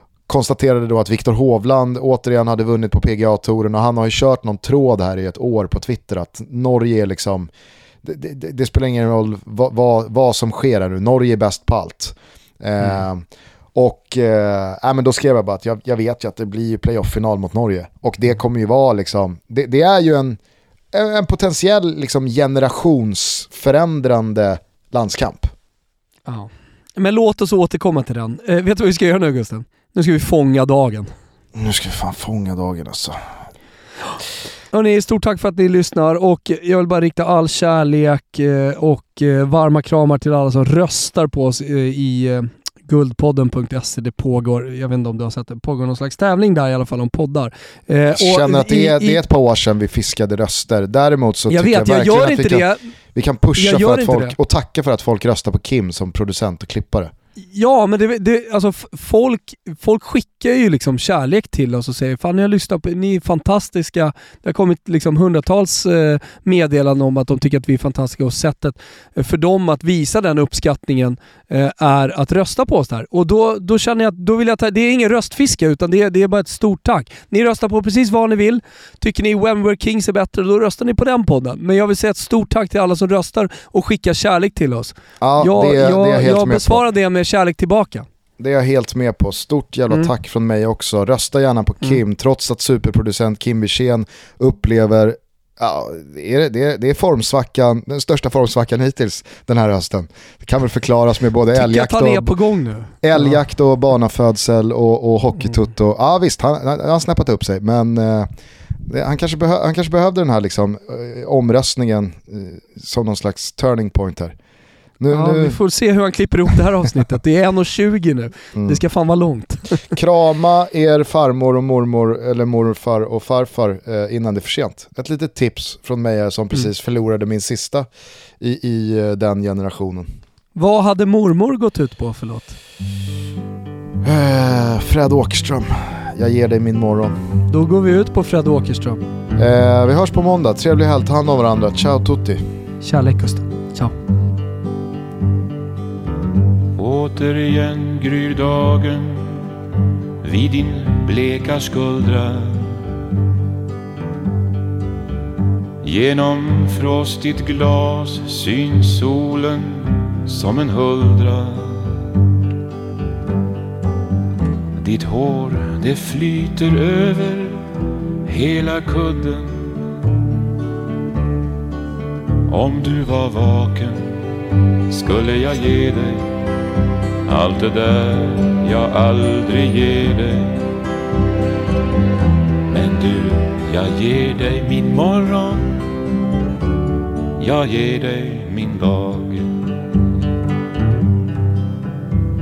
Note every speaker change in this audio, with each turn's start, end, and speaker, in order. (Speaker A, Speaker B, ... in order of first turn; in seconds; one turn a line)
Speaker A: 0.3-7.5
Speaker A: 8.0-13.2
Speaker A: 13.8-20.4
Speaker A: 20.9-25.5
Speaker B: 26.3-31.1
Speaker A: 31.6-33.2
Speaker B: 34.7-49.2
Speaker A: 48.1-57.1
Speaker B: 51.5-52.9
Speaker B: 53.6-54.4
Speaker B: 57.4-88.1
Speaker A: 85.2-86.8
Speaker A: 88.4-102.3
Speaker B: 101.5-103.4
Speaker A: 103.0-108.3
Speaker A: 108.8-114.4
Speaker A: 115.0-115.6
Speaker B: 115.1-120.0
Speaker A: 118.5-118.8
Speaker A: 119.9-127.9
Speaker A: 128.4-130.1
Speaker B: 130.6-132.5
Speaker A: 134.0-137.2
Speaker B: 137.5-139.0
Speaker A: 139.4-142.4
Speaker B: 142.8-143.9
Speaker C: 146.8-149.4
Speaker C: 150.2-152.8
Speaker C: 155.8-162.1
Speaker C: 164.8-167.6
Speaker C: 168.2-169.8
Speaker C: 172.5-174.2
Speaker C: 174.9-176.3
Speaker C: 177.3-180.7
Speaker C: 182.7-185.9
Speaker C: 187.4-189.6